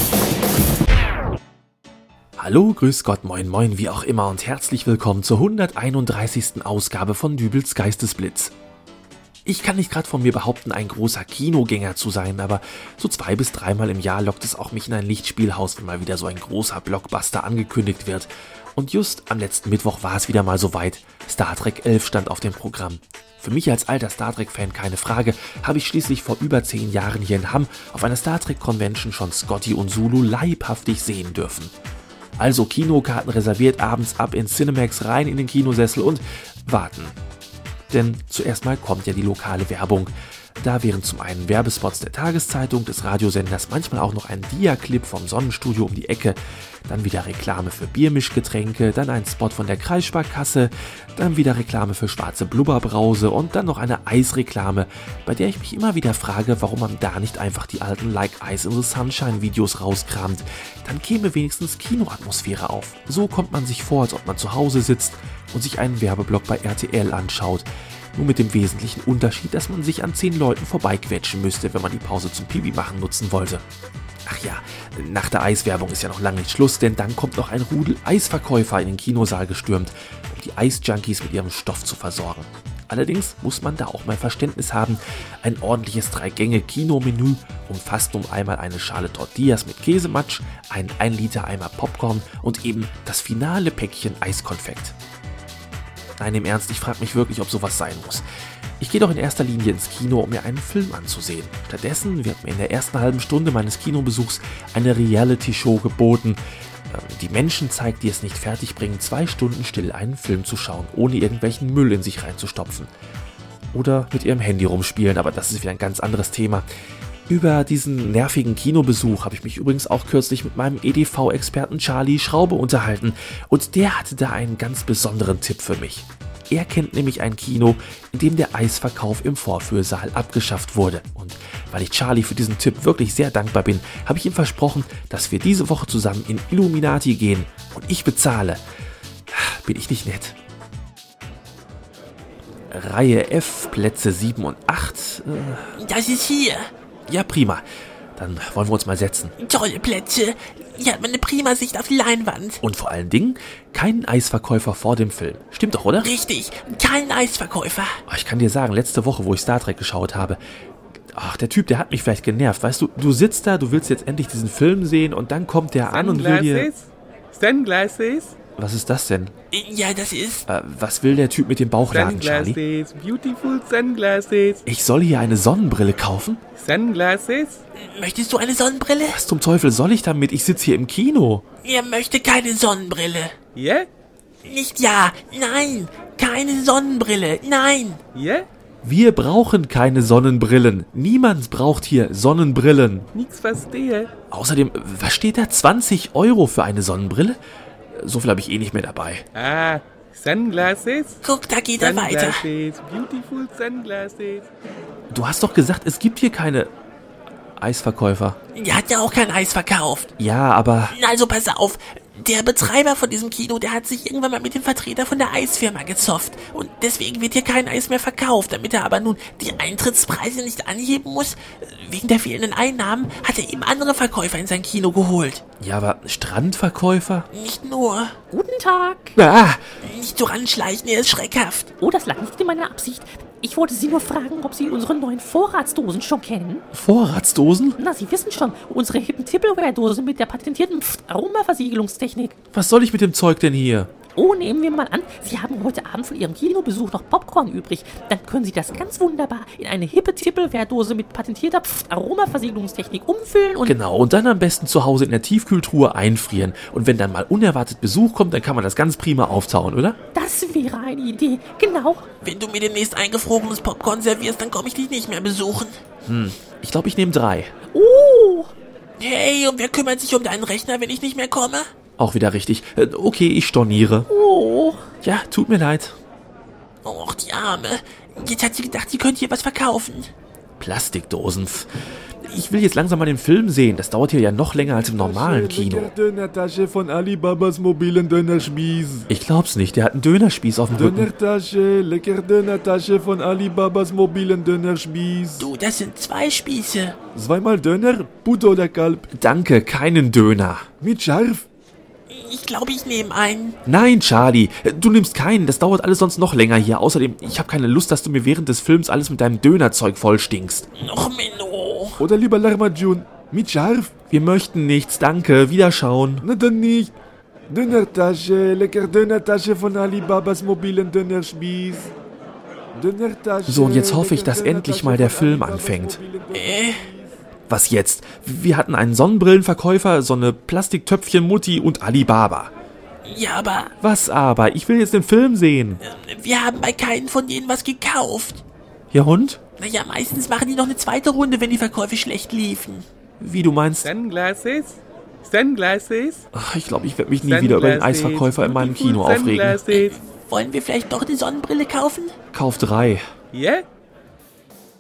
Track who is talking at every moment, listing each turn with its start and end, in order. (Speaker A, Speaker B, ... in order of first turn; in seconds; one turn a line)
Speaker A: 2.4-8.5
Speaker A: 9.5-31.7
Speaker A: 32.4-37.2
Speaker A: 37.9-73.6
Speaker A: 74.3-95.0
Speaker A: 96.2-98.2
Speaker A: 98.8-112.9
Speaker A: 113.7-116.7
Speaker A: 117.3-138.6
Speaker A: 139.3-140.4
Speaker A: 142.7-145.8
Speaker B: 145.8-146.7
Speaker A: 147.1-147.6
Speaker A: 148.2-149.3
Speaker B: 149.4-152.6
Speaker A: 152.6-156.1
Speaker B: 156.0-158.0
Speaker A: 158.1-160.4
Speaker A: 161.1-166.7
Speaker C: 165.8-168.4
Speaker A: 168.6-169.3
Speaker B: 169.5-170.5
Speaker A: 170.5-172.6
Speaker C: 171.9-174.6
Speaker A: 174.7-176.4
Speaker C: 176.6-177.7
Speaker B: 177.8-179.2
Speaker A: 179.1-181.5
Speaker B: 181.6-183.4
Speaker C: 183.5-183.9
Speaker B: 184.4-188.0
Speaker C: 188.1-188.5
Speaker A: 188.8-193.1
Speaker C: 193.1-194.1
Speaker A: 194.3-197.4
Speaker A: 197.9-199.2
Speaker C: 199.4-201.2
Speaker B: 201.2-202.5
Speaker C: 201.8-204.5
Speaker A: 205.1-206.7
Speaker A: 207.6-208.4
Speaker B: 208.5-210.1
Speaker A: 210.2-211.0
Speaker B: 210.9-225.4
Speaker A: 225.6-227.3
Speaker B: 227.3-228.2
Speaker D: 228.3-229.2
Speaker A: 229.2-229.8
Speaker B: 229.8-231.7
Speaker D: 231.8-236.6
Speaker A: 236.7-237.8
Speaker D: 237.8-242.3
Speaker A: 242.5-243.9
Speaker D: 244.2-253.8
Speaker A: 253.7-260.0
Speaker D: 260.1-262.1
Speaker B: 262.2-265.8
Speaker A: 266.1-267.5
Speaker D: 267.7-268.5
Speaker B: 269.0-271.7
Speaker A: 272.0-274.1
Speaker D: 274.1-274.9
Speaker A: 275.0-276.0
Speaker B: 276.8-280.1
Speaker A: 280.6-281.7
Speaker A: 282.2-285.9
Speaker E: 284.7-289.1
Speaker A: 289.1-291.1
Speaker E: 290.7-295.5
Speaker B: 295.4-297.0
Speaker E: 297.1-299.1
Speaker A: 299.1-300.7
Speaker E: 300.8-301.5
Speaker B: 302.1-303.6
Speaker A: 303.7-310.7
Speaker B: 310.8-312.1
Speaker E: 312.0-313.9
Speaker A: 314.0-316.2
Speaker E: 316.2-316.9
Speaker E: 317.5-321.9
Speaker E: 322.8-327.2
Speaker A: 323.5-326.0
Speaker B: 326.3-326.9
Speaker A: 327.5-332.5
Speaker B: 333.1-333.7
Speaker A: 333.8-335.8
Speaker B: 335.8-338.4
Speaker A: 338.9-339.5
Speaker B: 339.6-342.9
Speaker A: 343.2-343.9
Speaker C: 343.8-346.2
Speaker A: 346.3-349.7
Speaker C: 347.2-350.0
Speaker B: 349.7-352.2
Speaker A: 352.3-353.0
Speaker C: 353.3-353.6